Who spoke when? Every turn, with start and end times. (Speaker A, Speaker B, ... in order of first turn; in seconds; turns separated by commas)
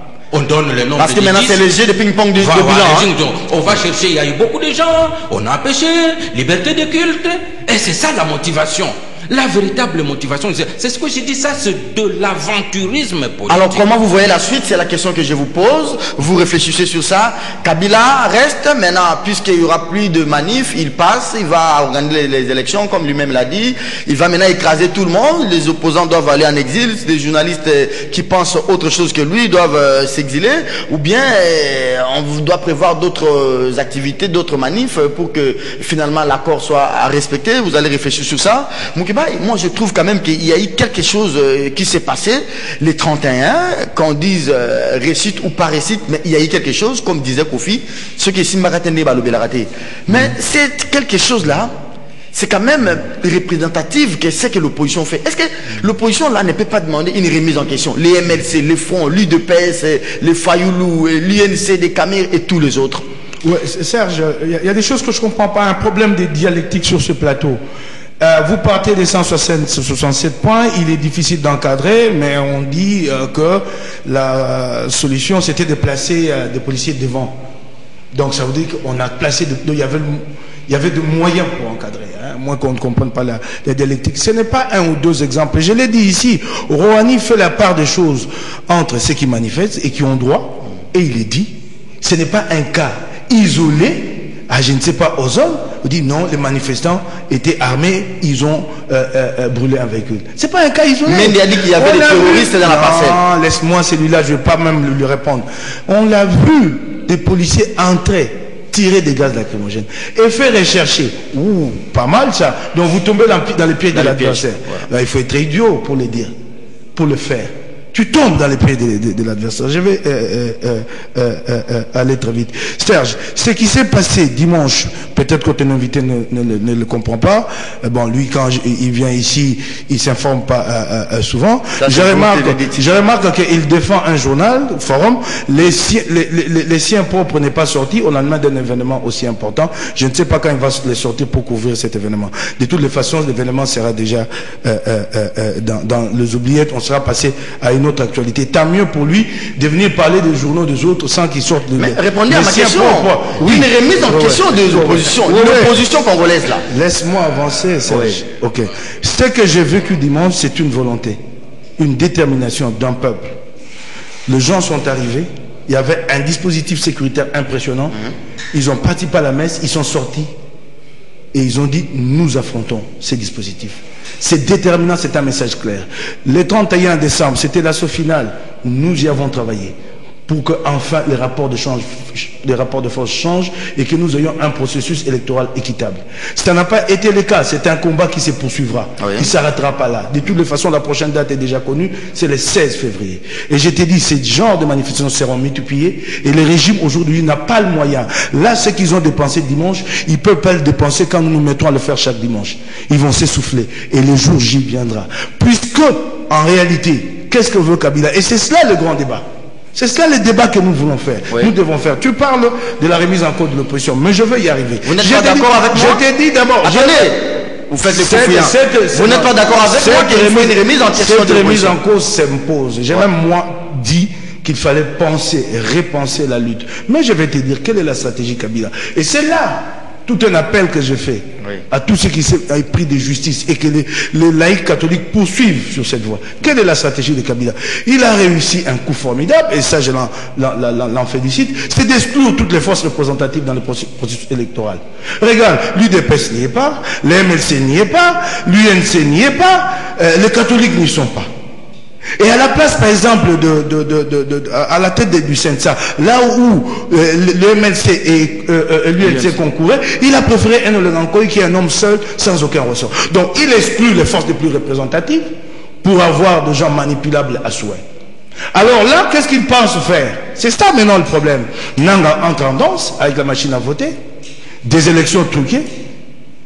Speaker A: 0.3-1.6, Speaker B: 1.0-3.1, Speaker A: 2.4-13.9, Speaker B: 13.5-51.7, Speaker B: 52.3-63.0, Speaker C: 63.4-67.6, Speaker C: 68.2-77.4, Speaker C: 78.1-116.3, Speaker B: 101.1-103.2, Speaker B: 113.9-114.8, Speaker C: 117.0-155.8, Speaker B: 131.8-132.9, Speaker B: 151.8-156.7, Speaker C: 156.7-161.2, Speaker B: 157.9-158.2, Speaker C: 161.8-163.3, Speaker C: 164.3-168.0, Speaker C: 168.5-170.3, Speaker C: 171.3-179.8, Speaker C: 180.3-217.1, Speaker B: 189.0-189.3, Speaker B: 214.8-216.0, Speaker B: 216.6-221.8, Speaker C: 217.9-251.3, Speaker C: 252.2-265.3, Speaker B: 259.0-259.3, Speaker C: 265.8-267.8, Speaker C: 268.5-273.9, Speaker C: 274.6-275.6